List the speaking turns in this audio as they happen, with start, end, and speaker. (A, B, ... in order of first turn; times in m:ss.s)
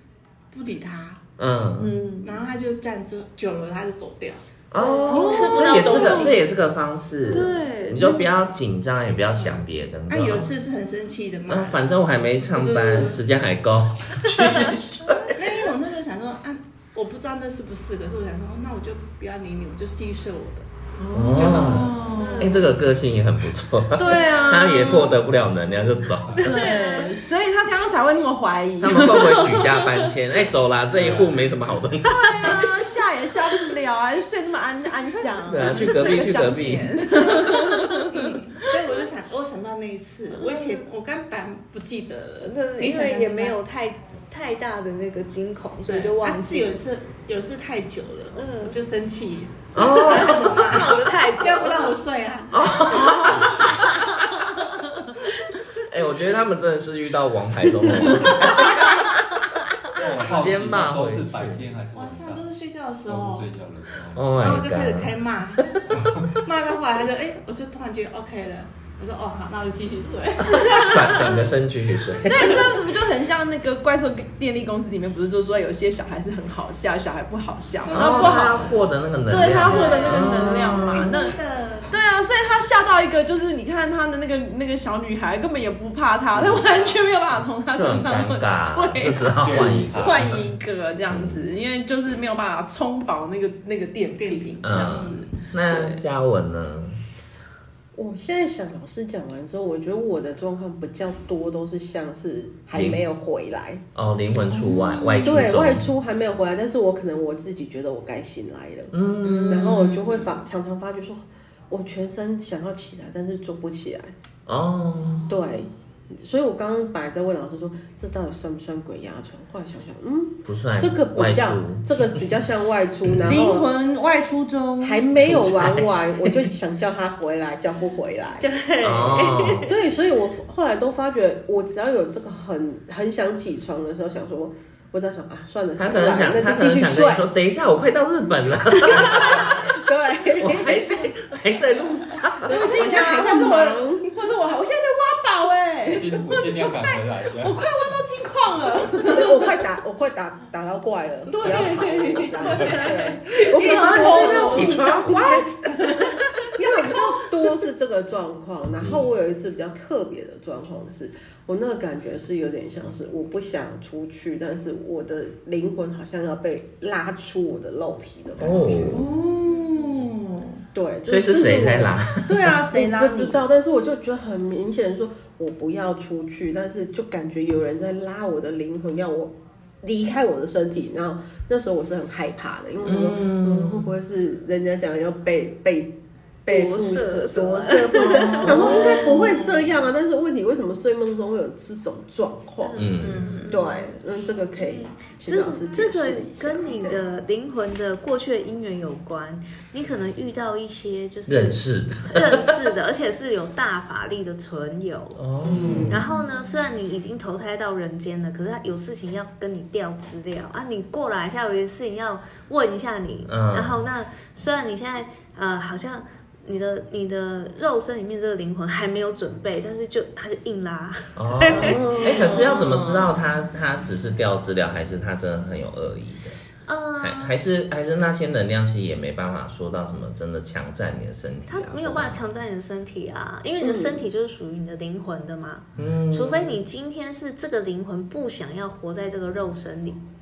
0:00.5-0:01.2 A
0:01.4-0:02.0 B
0:01.8-0:02.4 C
0:02.2-0:04.4 A
0:04.7-0:10.5 B
0:04.8-0:06.3 C
0:04.8-0:06.4 D
0:07.3-0:08.3 C
0:07.3-0:07.7 D
0:10.1-0:11.9 A
0:11.5-0:15.6 B
0:12.5-0:13.2 A
0:15.3-0:20.7 A
0:21.0-0:22.7 C
0:21.1-0:26.6 B
0:21.3-0:22.3 A
0:22.2-0:22.6 D
0:23.9-0:25.2 C
0:26.4-0:27.2 D
0:26.4-0:30.1 C
0:28.8-0:32.7 B
0:30.9-0:31.6 E
0:32.0-0:38.3 C
0:35.4-0:37.0 B
0:38.1-0:43.6 A
0:40.3-0:40.9 D
0:42.4-0:46.8 D
0:45.9-0:54.0 A
0:48.4-0:48.8 D
0:49.7-0:50.7 B
0:49.8-0:52.0 D
0:52.5-0:53.7 B
0:53.1-0:53.9 E
0:55.9-0:58.9 B
0:59.9-1:02.5 E
1:00.0-1:01.7 B
1:01.9-1:03.5 A
1:03.1-1:04.4 E
1:04.2-1:05.2 B
1:04.4-1:11.4 A
1:05.9-1:06.3 E
1:10.7-1:12.7 B
1:12.2-1:18.7 C
1:17.8-1:18.8 A
1:17.9-1:21.1 B
1:19.3-1:21.4 C
1:19.4-1:21.9 A
1:21.9-1:36.0 C
1:26.6-1:27.0 A
1:27.7-1:30.4 B
1:29.4-1:30.3 E
1:31.1-1:31.4 B
1:34.2-1:35.1 A
1:34.6-1:37.0 B
1:38.0-1:43.8 F
1:42.7-1:43.0 B
1:44.0-1:45.9 B
1:44.5-1:45.4 C
1:45.2-1:54.1 F
1:48.9-1:49.8 B
1:49.2-1:50.3 C
1:54.5-1:55.3 B
1:55.3-2:03.7 F
2:00.5-2:01.9 B
2:03.1-2:03.4 B
2:03.3-2:05.1 C
2:04.8-2:08.5 F
2:05.2-2:06.4 B
2:08.4-2:09.7 D
2:08.8-2:09.7 B
2:09.6-2:17.3 F
2:15.8-2:19.7 B
2:18.8-2:21.1 F
2:20.4-2:22.6 B
2:22.4-2:24.1 F
2:22.5-2:29.6 C
2:25.9-2:28.0 E
2:29.0-2:35.5 F
2:31.3-2:37.0 C
2:32.4-2:32.8 E
2:33.6-2:35.5 B
2:36.4-2:49.1 F
2:38.8-2:39.0 B
2:48.4-2:49.0 B
2:48.9-2:50.6 C
2:50.7-3:12.9 F
2:51.1-2:52.6 B
2:52.3-2:53.4 C
3:02.8-3:03.9 B
3:06.5-3:09.2 D
3:08.3-3:09.7 C
3:12.6-3:13.9 D
3:12.8-3:13.3 B
3:13.0-3:13.7 C
3:13.4-3:17.0 F
3:14.6-3:25.2 D
3:21.3-3:22.6 B
3:25.2-3:26.0 B
3:25.4-3:26.0 C
3:25.5-3:25.9 F
3:25.8-3:42.4 D
3:33.3-3:33.8 B
3:41.2-3:46.4 B
3:41.5-3:42.7 F
3:41.7-3:43.0 C
3:46.7-3:47.4 D
3:47.0-3:52.2 B
3:51.5-4:00.0 D
3:53.7-3:54.0 F
3:55.8-3:56.5 B